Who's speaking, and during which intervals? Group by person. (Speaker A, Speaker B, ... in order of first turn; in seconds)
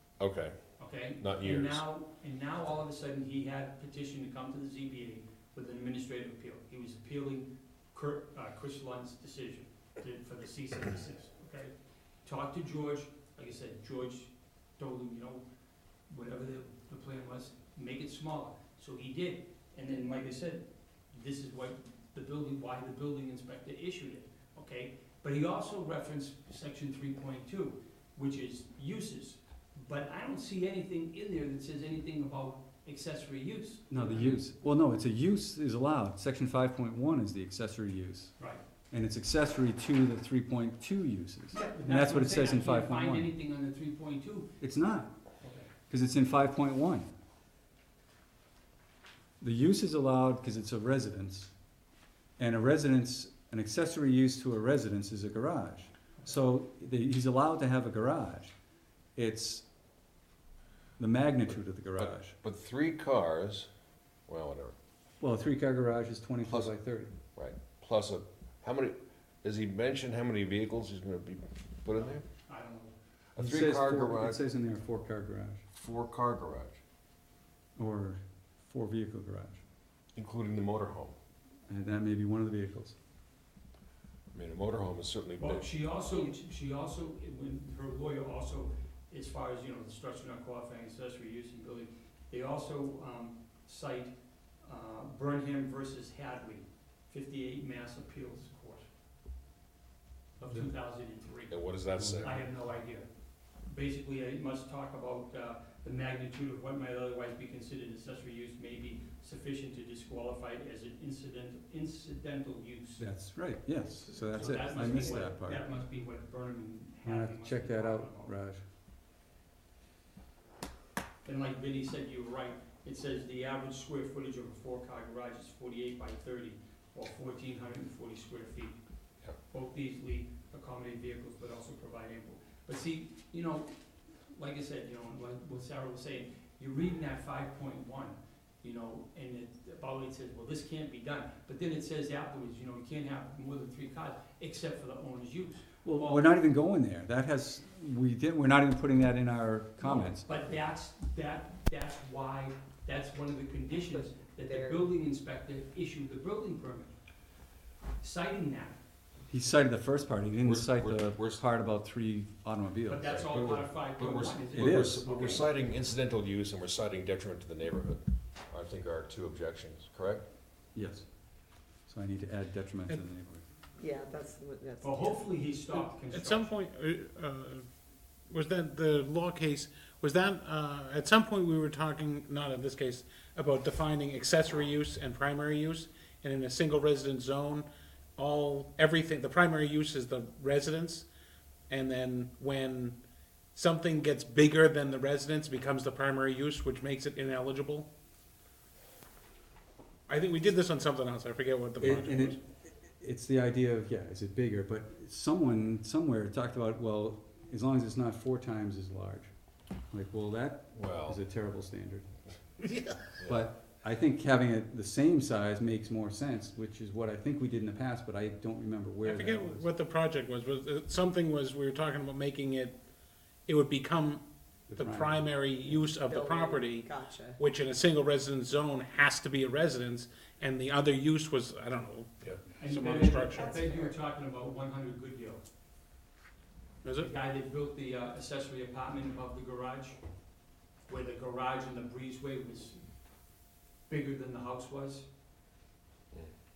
Speaker A: 0.2-1.8, 62.0-63.7, 64.3-64.8, 66.5-66.7, 67.4-72.2, 73.3-74.4, 75.8-76.8, 80.1-81.2, 84.3-85.7, 101.5-102.3, 160.4-161.4, 163.1-170.2, 210.7-211.2, 213.2-213.5
Speaker B: 0.8-11.7, 12.2-15.4, 16.1-34.4, 41.5-44.5, 45.4-45.7, 71.9-72.9, 85.4-98.9, 100.4-113.1, 114.3-118.3, 121.2-128.8, 129.5-133.7, 134.3-146.4, 149.8-156.9, 158.0-158.8, 162.9-165.5, 174.8-176.5, 232.6-235.4, 237.0-240.0, 240.9-242.9, 243.9-245.1
Speaker C: 33.9-38.4, 38.9-43.3, 44.6-45.1, 45.9-47.1, 49.4-51.5, 52.4-58.5, 59.2-59.7, 61.0-62.3, 65.2-67.1, 73.4-75.6, 77.8-79.6, 81.7-83.0, 102.0-102.4, 113.0-115.7, 117.0-118.6, 145.8-150.3, 159.3-163.5, 164.5-165.0, 170.8-171.1, 171.9-173.4, 201.8-209.3, 209.9-212.1, 213.2-219.7, 224.7-225.3
Speaker D: 154.5-154.8, 173.8-174.9, 226.1-227.4, 233.4-233.8
Speaker E: 176.0-177.7, 178.3-191.1, 191.7-197.9, 200.1-202.4, 219.1-222.9, 223.4-233.6, 236.8-237.1